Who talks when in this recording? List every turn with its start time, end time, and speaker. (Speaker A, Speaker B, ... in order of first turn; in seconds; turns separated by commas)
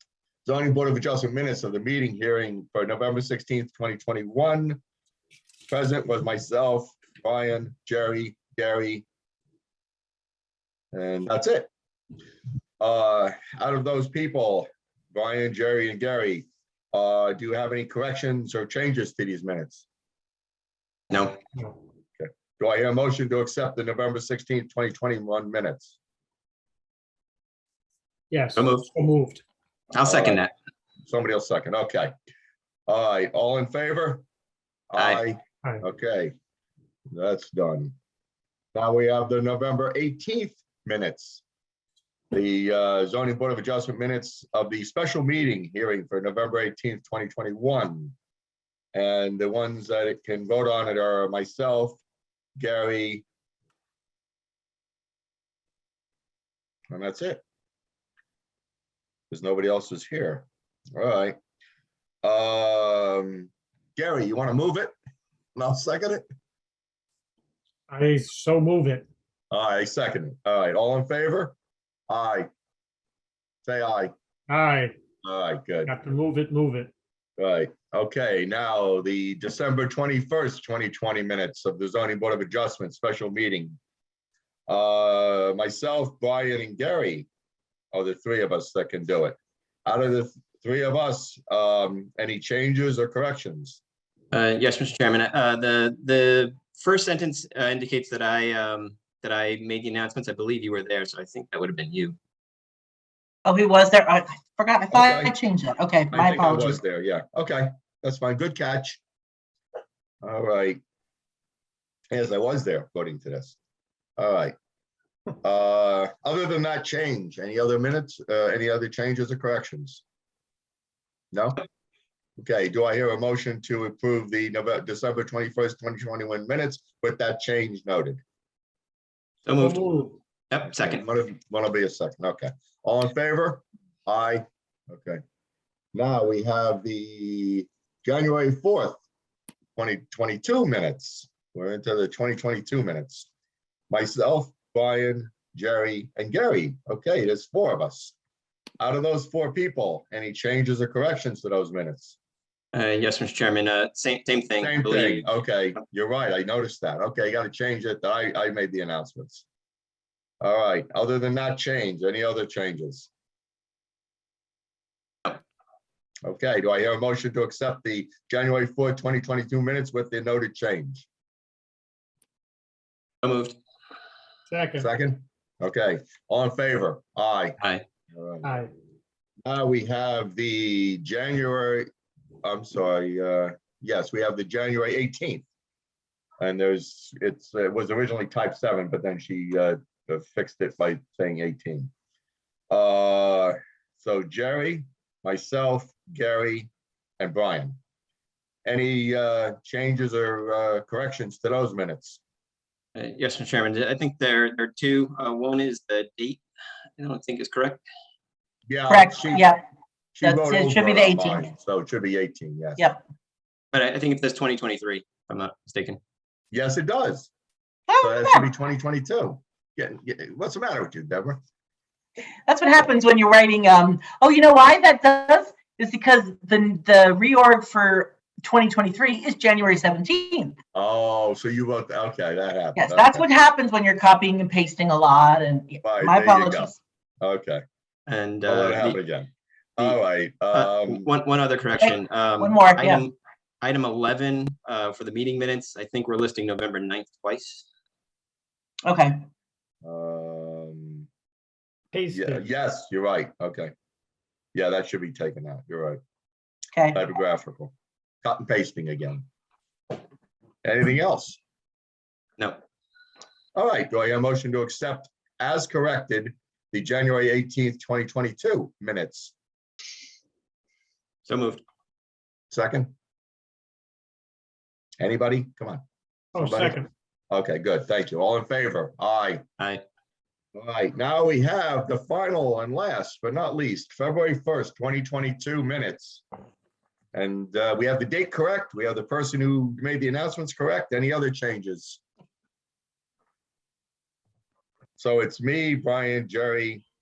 Speaker A: 0.4-4.8, Speaker A: 5.7-9.0, Speaker A: 10.9-11.7, Speaker A: 12.8-19.8, Speaker B: 21.1-21.4, Speaker A: 22.2-25.9, Speaker C: 28.3-29.4, Speaker B: 28.6-28.9, Speaker B: 29.9-30.5, Speaker A: 30.0-30.4, Speaker A: 31.1-32.1, Speaker A: 32.9-34.2, Speaker A: 34.9-36.3, Speaker B: 35.0-35.2, Speaker A: 37.1-37.9, Speaker A: 38.7-41.4, Speaker A: 42.3-48.1, Speaker A: 48.9-52.0, Speaker A: 52.6-53.2, Speaker A: 56.9-57.4, Speaker A: 59.3-61.4, Speaker A: 62.2-64.9, Speaker A: 65.5-66.2, Speaker C: 67.9-69.0, Speaker A: 69.5-71.5, Speaker A: 72.1-72.5, Speaker A: 73.6-74.1, Speaker C: 74.5-74.9, Speaker A: 75.2-75.9, Speaker C: 75.9-76.9, Speaker A: 77.4-83.8, Speaker A: 84.7-87.3, Speaker A: 87.9-93.8, Speaker B: 94.3-102.2, Speaker D: 103.5-106.8, Speaker A: 104.9-105.3, Speaker A: 106.1-109.0, Speaker A: 110.2-110.8, Speaker A: 112.1-113.6, Speaker A: 114.2-114.5, Speaker A: 115.4-120.0, Speaker A: 121.3-121.6, Speaker A: 122.4-128.2, Speaker B: 129.4-131.1, Speaker C: 129.7-130.1, Speaker A: 130.7-135.2, Speaker A: 135.9-139.0, Speaker A: 139.8-143.3, Speaker A: 143.9-148.1, Speaker A: 148.8-152.2, Speaker B: 152.7-155.3, Speaker A: 154.6-159.4, Speaker A: 160.4-163.1, Speaker A: 166.2-171.1, Speaker B: 173.2-173.6, Speaker C: 174.5-174.8, Speaker A: 174.8-177.6, Speaker A: 178.1-178.5, Speaker C: 178.4-178.7, Speaker A: 179.4-181.9, Speaker A: 182.4-185.4, Speaker A: 186.4-191.9, Speaker A: 192.7-197.8, Speaker A: 198.7-202.2, Speaker B: 202.9-206.4, Speaker B: 207.0-207.8, Speaker A: 208.7-209.5, Speaker D: 208.9-209.6, Speaker A: 210.1-212.9, Speaker D: 210.2-211.5, Speaker D: 212.8-213.0, Speaker B: 213.7-216.0, Speaker A: 216.5-217.3, Speaker D: 217.9-218.5, Speaker A: 218.0-221.4, Speaker D: 222.5-230.5, Speaker A: 230.7-233.2, Speaker D: 232.8-236.8, Speaker A: 235.8-237.6, Speaker B: 238.1-239.0, Speaker A: 238.4-241.1, Speaker B: 240.5-247.7, Speaker D: 241.8-243.0, Speaker D: 248.8-249.2, Speaker A: 249.8-251.1, Speaker C: 251.9-252.4, Speaker A: 252.1-253.7, Speaker A: 254.5-256.0, Speaker A: 256.9-257.7, Speaker A: 258.2-259.3, Speaker A: 260.6-261.4, Speaker B: 262.4-262.6, Speaker A: 263.5-269.3, Speaker B: 271.2-271.6, Speaker A: 272.5-272.9, Speaker A: 275.0-275.8, Speaker C: 276.3-276.9, Speaker A: 276.4-276.8, Speaker A: 277.3-279.4, Speaker A: 280.5-286.2, Speaker A: 287.1-292.0, Speaker A: 295.0-296.8